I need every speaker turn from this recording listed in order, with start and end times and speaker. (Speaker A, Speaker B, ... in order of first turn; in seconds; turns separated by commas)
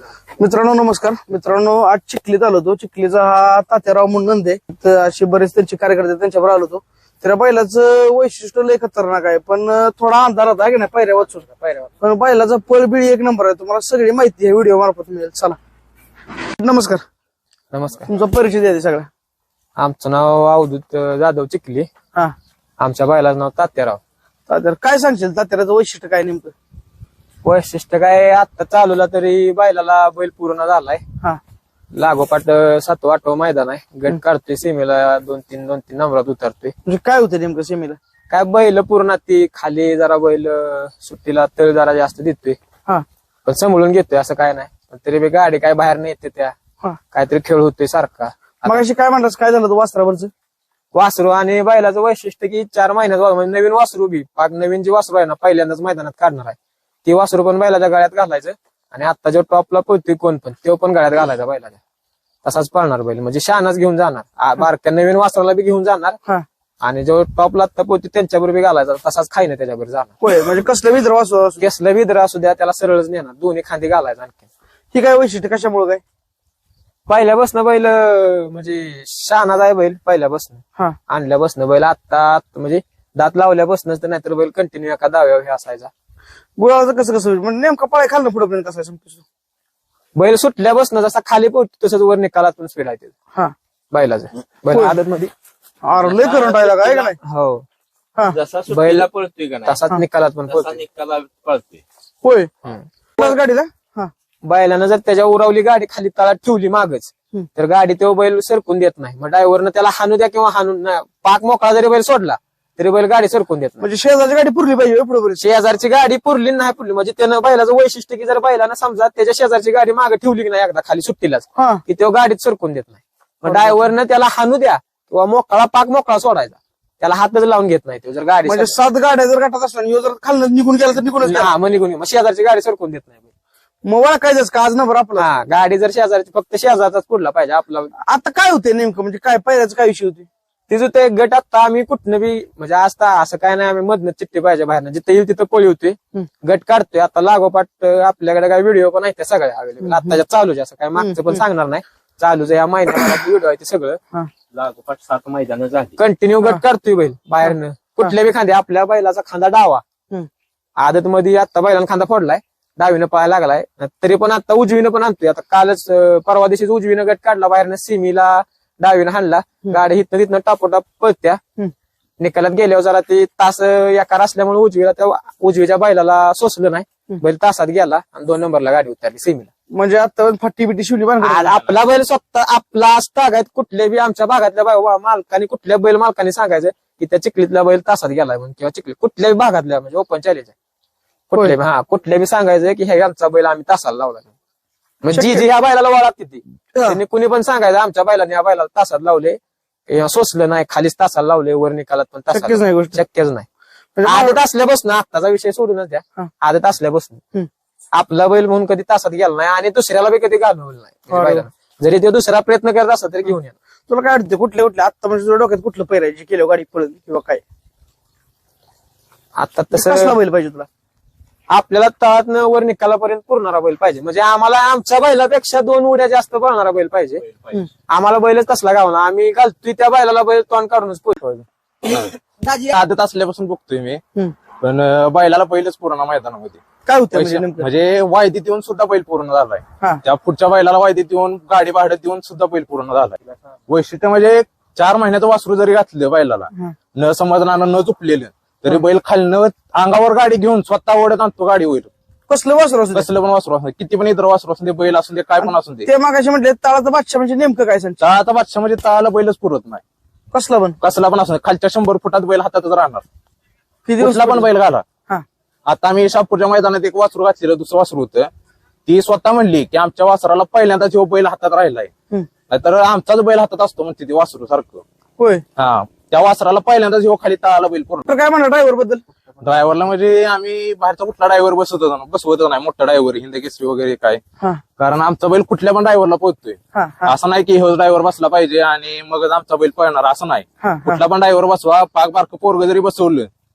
Speaker A: 0.4-11.4, Speaker B: 11.1-11.9, Speaker A: 12.0-15.6, Speaker A: 16.6-17.0, Speaker B: 17.7-18.1, Speaker A: 18.1-19.1, Speaker B: 19.8-21.9, Speaker B: 22.8-24.0, Speaker A: 24.5-26.5, Speaker B: 27.4-31.0, Speaker B: 31.9-36.7, Speaker A: 36.9-38.0, Speaker B: 38.3-42.6, Speaker B: 43.5-46.5, Speaker B: 47.1-48.8, Speaker A: 48.6-50.3, Speaker B: 50.9-61.8, Speaker B: 62.4-66.2, Speaker B: 66.8-70.1, Speaker A: 70.2-71.6, Speaker B: 71.6-74.4, Speaker A: 74.9-76.0, Speaker B: 77.1-85.9, Speaker A: 86.6-89.2, Speaker B: 90.2-93.1, Speaker B: 93.9-95.3, Speaker A: 94.7-95.0, Speaker A: 95.8-97.2, Speaker C: 96.0-97.1, Speaker B: 97.2-97.6, Speaker C: 98.3-99.8, Speaker B: 98.7-99.1, Speaker B: 99.7-100.8, Speaker C: 100.5-101.8, Speaker A: 102.2-102.5, Speaker B: 102.6-103.4, Speaker A: 103.2-104.1, Speaker B: 104.4-113.9, Speaker A: 113.8-115.4, Speaker B: 115.4-128.8, Speaker A: 121.6-121.8, Speaker A: 123.5-123.8, Speaker A: 128.4-131.5, Speaker B: 131.2-133.3, Speaker A: 133.8-135.3, Speaker B: 135.2-137.9, Speaker A: 138.0-140.3, Speaker B: 140.7-154.0, Speaker A: 149.8-150.2, Speaker A: 150.9-151.4, Speaker C: 154.5-156.0, Speaker B: 156.0-159.8, Speaker B: 160.8-171.4, Speaker B: 172.2-179.5, Speaker A: 179.7-181.6, Speaker B: 181.2-190.5, Speaker B: 191.3-194.3, Speaker B: 195.0-203.4, Speaker A: 195.1-195.4, Speaker A: 202.3-203.0, Speaker A: 203.9-204.4, Speaker B: 204.0-207.2, Speaker B: 207.9-213.5, Speaker A: 211.1-211.4, Speaker A: 213.9-217.4, Speaker B: 219.3-220.2, Speaker A: 219.7-220.7, Speaker B: 221.5-227.2, Speaker B: 227.9-231.3, Speaker D: 232.5-234.0, Speaker D: 234.6-236.6, Speaker A: 236.8-237.7, Speaker D: 237.1-251.9, Speaker A: 252.3-253.1, Speaker D: 252.9-255.9, Speaker A: 255.4-258.0, Speaker D: 258.0-259.8, Speaker A: 260.3-260.8, Speaker D: 260.8-263.0, Speaker A: 263.9-264.5, Speaker D: 264.0-264.8, Speaker D: 265.6-268.3, Speaker D: 268.9-271.9, Speaker D: 272.5-274.8, Speaker A: 275.2-275.4, Speaker D: 275.6-278.0, Speaker A: 278.1-279.0, Speaker D: 279.4-284.2, Speaker D: 284.8-293.3, Speaker A: 286.7-287.1, Speaker A: 290.6-291.0